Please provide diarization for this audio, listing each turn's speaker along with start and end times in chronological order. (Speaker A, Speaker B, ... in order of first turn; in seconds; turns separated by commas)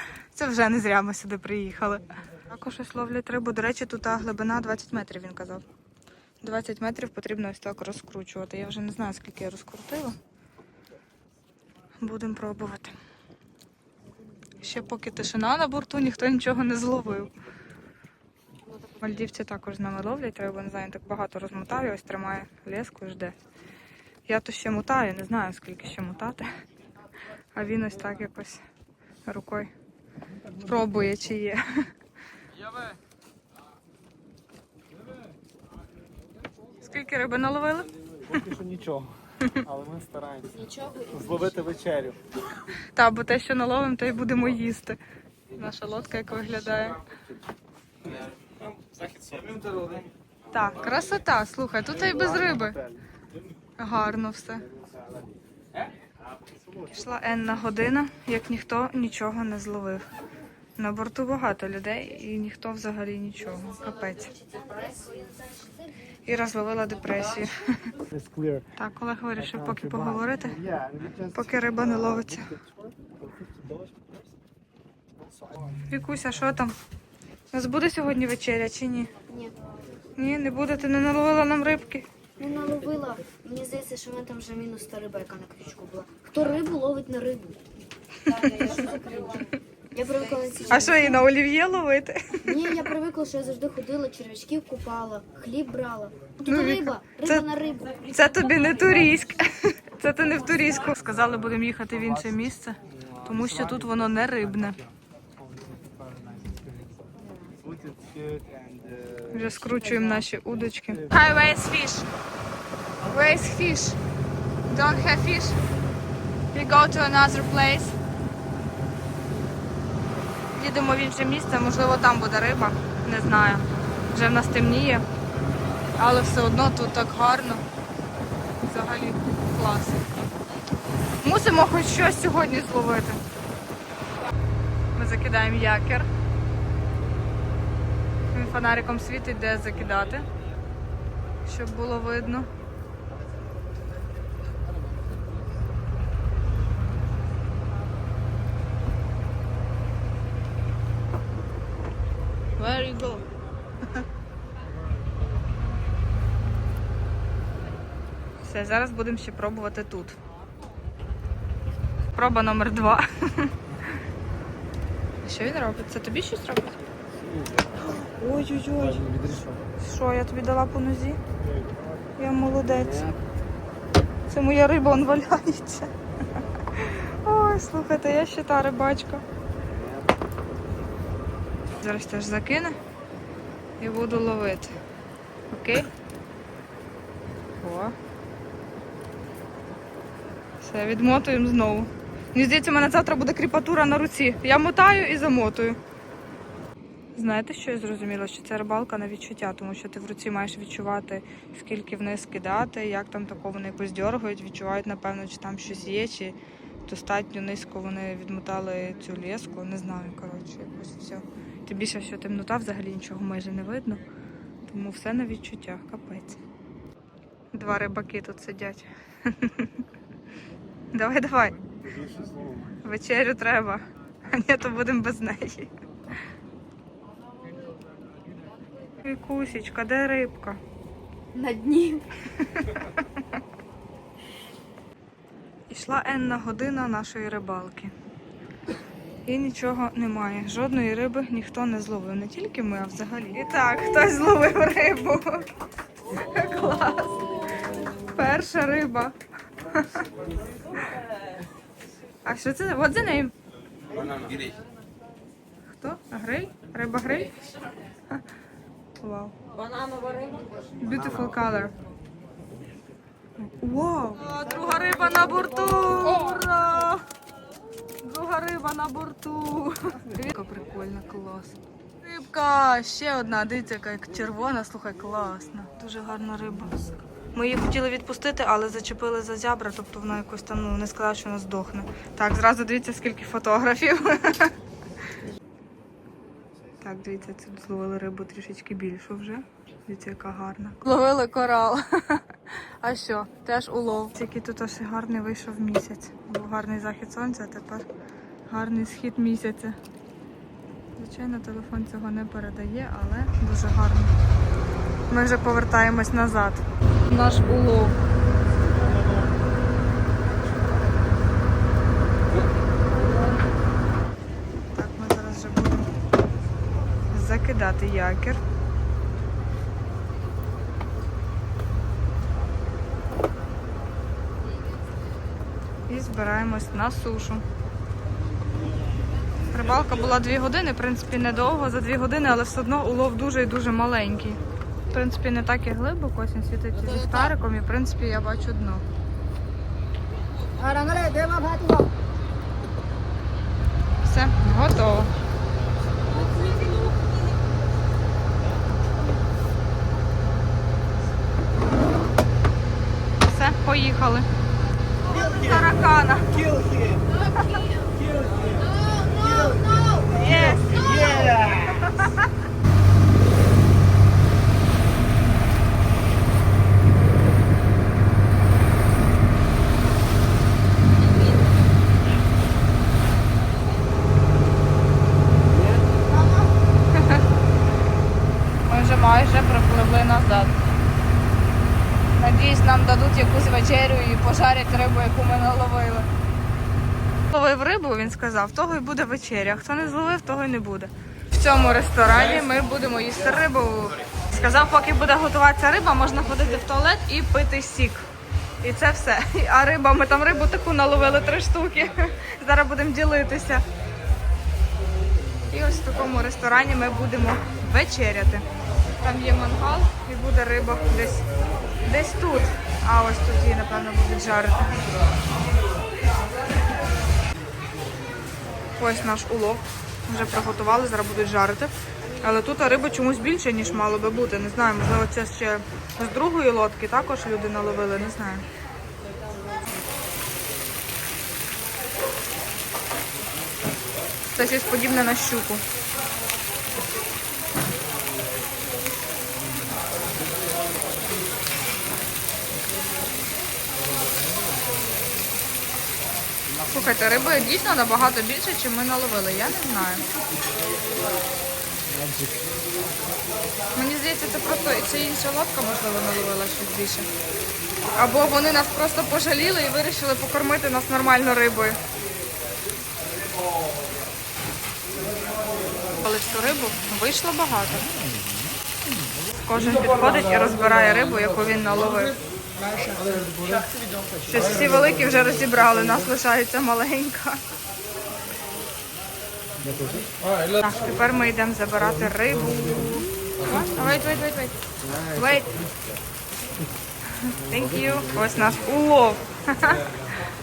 Speaker A: 0.3-5.6, Speaker A: 6.4-10.2, Speaker A: 12.0-12.9, Speaker A: 14.6-17.3, Speaker A: 18.8-23.4, Speaker A: 24.3-26.5, Speaker A: 27.5-28.6, Speaker A: 29.3-29.7, Speaker A: 30.6-31.9, Speaker A: 36.8-38.4, Speaker B: 38.3-39.1, Speaker B: 39.6-40.6, Speaker C: 40.5-41.7, Speaker B: 41.1-42.2, Speaker A: 42.9-45.0, Speaker A: 45.5-47.0, Speaker D: 48.0-50.1, Speaker A: 50.5-52.8, Speaker B: 52.0-53.0, Speaker A: 53.8-54.6, Speaker B: 54.9-55.2, Speaker A: 56.9-60.1, Speaker A: 60.8-64.3, Speaker C: 64.1-65.9, Speaker A: 66.3-67.9, Speaker B: 68.1-68.7, Speaker A: 68.8-70.6, Speaker B: 69.7-70.0, Speaker B: 70.6-71.3, Speaker A: 71.3-72.5, Speaker B: 72.0-74.1, Speaker A: 75.8-76.7, Speaker A: 77.5-79.1, Speaker C: 79.3-79.6, Speaker A: 80.2-82.1, Speaker C: 82.4-87.6, Speaker A: 88.3-88.7, Speaker C: 88.5-91.2, Speaker A: 90.7-92.9, Speaker C: 92.4-98.1, Speaker A: 96.5-97.5, Speaker A: 98.1-104.8, Speaker B: 106.1-106.6, Speaker C: 107.2-107.6, Speaker B: 107.7-109.3, Speaker A: 109.3-112.1, Speaker A: 113.0-114.0, Speaker A: 114.7-115.6, Speaker A: 116.5-118.0, Speaker A: 120.6-125.0, Speaker A: 126.0-127.6, Speaker A: 128.6-130.0, Speaker A: 131.2-133.2, Speaker A: 135.0-136.1, Speaker A: 138.3-140.3, Speaker A: 141.4-142.5, Speaker A: 152.6-153.3, Speaker A: 158.4-160.2, Speaker A: 162.1-163.5, Speaker A: 165.2-166.8, Speaker A: 167.8-169.1, Speaker B: 168.9-169.6, Speaker A: 169.8-171.2, Speaker A: 172.2-173.2, Speaker A: 174.3-175.9, Speaker A: 176.8-179.2, Speaker A: 181.8-182.8, Speaker A: 183.8-184.7, Speaker A: 185.5-185.9, Speaker A: 187.6-187.9, Speaker A: 190.6-195.8, Speaker A: 197.2-214.0, Speaker A: 214.6-216.4, Speaker A: 217.5-219.7, Speaker A: 220.9-221.6, Speaker B: 221.8-222.7, Speaker A: 222.8-225.7, Speaker A: 229.0-230.6, Speaker C: 231.3-232.1, Speaker A: 232.6-233.0, Speaker A: 235.7-237.9, Speaker A: 239.3-245.5, Speaker A: 246.1-247.3, Speaker A: 248.0-249.1, Speaker A: 249.7-250.0, Speaker A: 252.2-253.3, Speaker D: 253.9-254.6, Speaker A: 255.8-257.4, Speaker A: 259.0-259.4, Speaker A: 260.8-261.8, Speaker A: 263.4-267.0, Speaker A: 268.0-284.5, Speaker A: 286.8-297.9, Speaker A: 298.5-299.8, Speaker A: 301.0-304.1, Speaker A: 305.1-308.0, Speaker A: 314.7-315.9, Speaker A: 317.1-318.4, Speaker A: 325.9-327.4, Speaker A: 329.5-334.4, Speaker A: 334.9-338.8, Speaker C: 340.6-341.8, Speaker A: 344.0-345.1, Speaker A: 353.2-354.3, Speaker A: 355.1-356.5, Speaker C: 358.9-360.0, Speaker A: 360.1-362.1, Speaker C: 361.0-361.3, Speaker C: 376.1-376.4, Speaker A: 376.9-377.2, Speaker A: 378.6-380.6, Speaker A: 382.2-386.1, Speaker A: 387.3-398.1, Speaker A: 398.6-403.6, Speaker A: 405.5-408.4, Speaker A: 409.0-411.2, Speaker A: 411.9-414.9, Speaker A: 418.8-428.4, Speaker A: 434.3-435.6, Speaker A: 446.7-450.0, Speaker A: 453.8-457.1, Speaker A: 458.0-461.8, Speaker A: 466.0-467.9, Speaker A: 469.4-472.2, Speaker A: 474.3-477.4, Speaker A: 480.6-484.6, Speaker A: 485.1-485.6, Speaker A: 487.2-489.8